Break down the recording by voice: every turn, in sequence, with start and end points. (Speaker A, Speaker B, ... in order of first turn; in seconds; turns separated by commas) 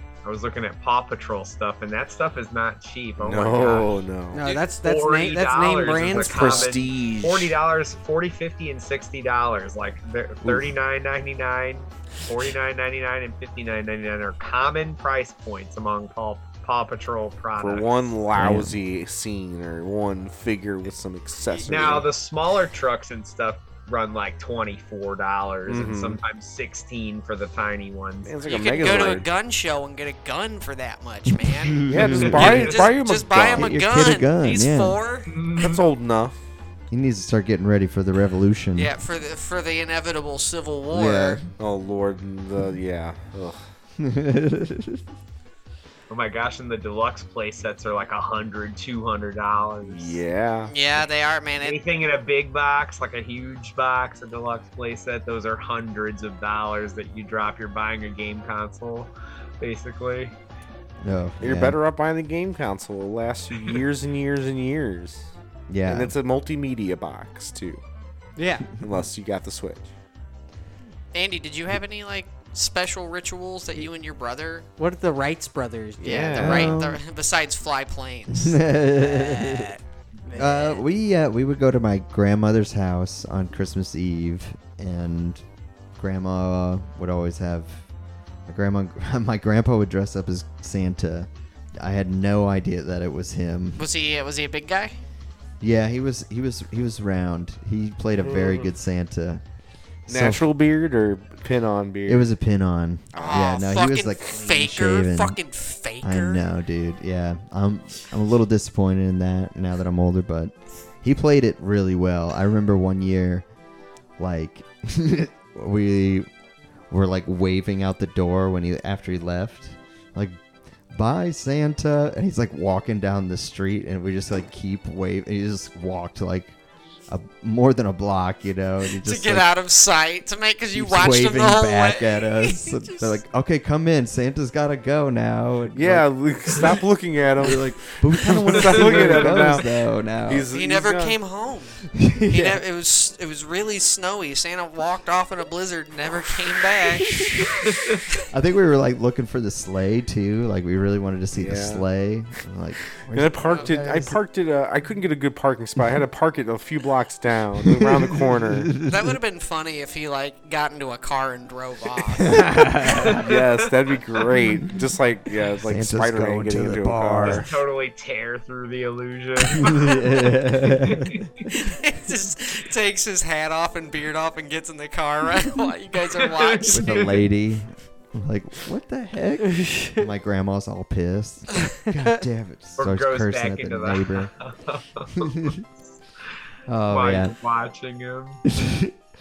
Speaker A: 0.2-4.0, Speaker B: 3.2-4.4, Speaker C: 4.3-6.7, Speaker A: 4.8-18.1, Speaker B: 6.1-7.5, Speaker B: 17.6-22.1, Speaker D: 18.3-18.8, Speaker A: 21.6-28.4, Speaker B: 25.7-26.2, Speaker B: 28.2-29.3, Speaker E: 28.4-35.4, Speaker D: 31.2-32.5, Speaker B: 31.8-33.7, Speaker A: 32.1-32.9, Speaker D: 33.5-35.0, Speaker A: 35.3-35.8, Speaker B: 35.5-36.4, Speaker D: 36.9-38.9, Speaker E: 38.8-41.5, Speaker D: 40.9-41.5, Speaker B: 41.6-43.6, Speaker D: 44.0-45.0, Speaker A: 46.1-50.2, Speaker B: 49.9-50.7, Speaker E: 50.7-51.8, Speaker A: 51.6-60.3, Speaker D: 61.0-61.8, Speaker B: 61.4-65.3, Speaker A: 63.5-63.8, Speaker D: 65.7-66.1, Speaker B: 65.9-67.8, Speaker C: 68.4-68.7, Speaker B: 68.8-69.9, Speaker E: 71.1-74.7, Speaker C: 74.8-76.6, Speaker B: 76.0-76.8, Speaker E: 76.1-79.8, Speaker D: 76.4-77.0, Speaker D: 78.3-79.7, Speaker E: 80.3-80.6, Speaker D: 80.3-85.4, Speaker D: 86.0-87.9, Speaker D: 88.5-91.3, Speaker D: 91.8-93.9, Speaker E: 93.8-95.0, Speaker D: 95.6-99.4, Speaker B: 98.2-98.7, Speaker D: 100.1-100.5, Speaker B: 100.1-102.3, Speaker D: 102.0-105.4, Speaker B: 103.1-103.6, Speaker E: 103.2-106.4, Speaker D: 106.0-113.5, Speaker D: 114.2-116.3, Speaker D: 116.9-126.5, Speaker D: 127.1-129.5, Speaker E: 128.9-133.2, Speaker D: 130.7-136.8, Speaker B: 135.7-139.7, Speaker D: 137.4-140.5, Speaker A: 138.8-139.4, Speaker B: 140.3-141.2, Speaker E: 140.5-147.5, Speaker D: 141.9-142.6, Speaker D: 147.0-147.4, Speaker A: 147.6-148.0, Speaker D: 148.3-154.2, Speaker B: 151.3-151.8, Speaker B: 153.1-158.8, Speaker D: 157.7-159.2, Speaker E: 158.8-162.5, Speaker D: 162.2-163.2, Speaker A: 162.9-164.2, Speaker B: 163.0-167.5, Speaker D: 165.7-167.5, Speaker A: 167.2-170.1, Speaker D: 169.6-171.2, Speaker E: 169.7-170.0, Speaker A: 170.7-171.5, Speaker E: 171.5-177.2, Speaker A: 176.1-177.2, Speaker D: 176.7-184.3, Speaker C: 179.5-180.1, Speaker A: 182.8-185.9, Speaker D: 186.7-187.3, Speaker A: 186.9-188.5, Speaker D: 188.6-188.9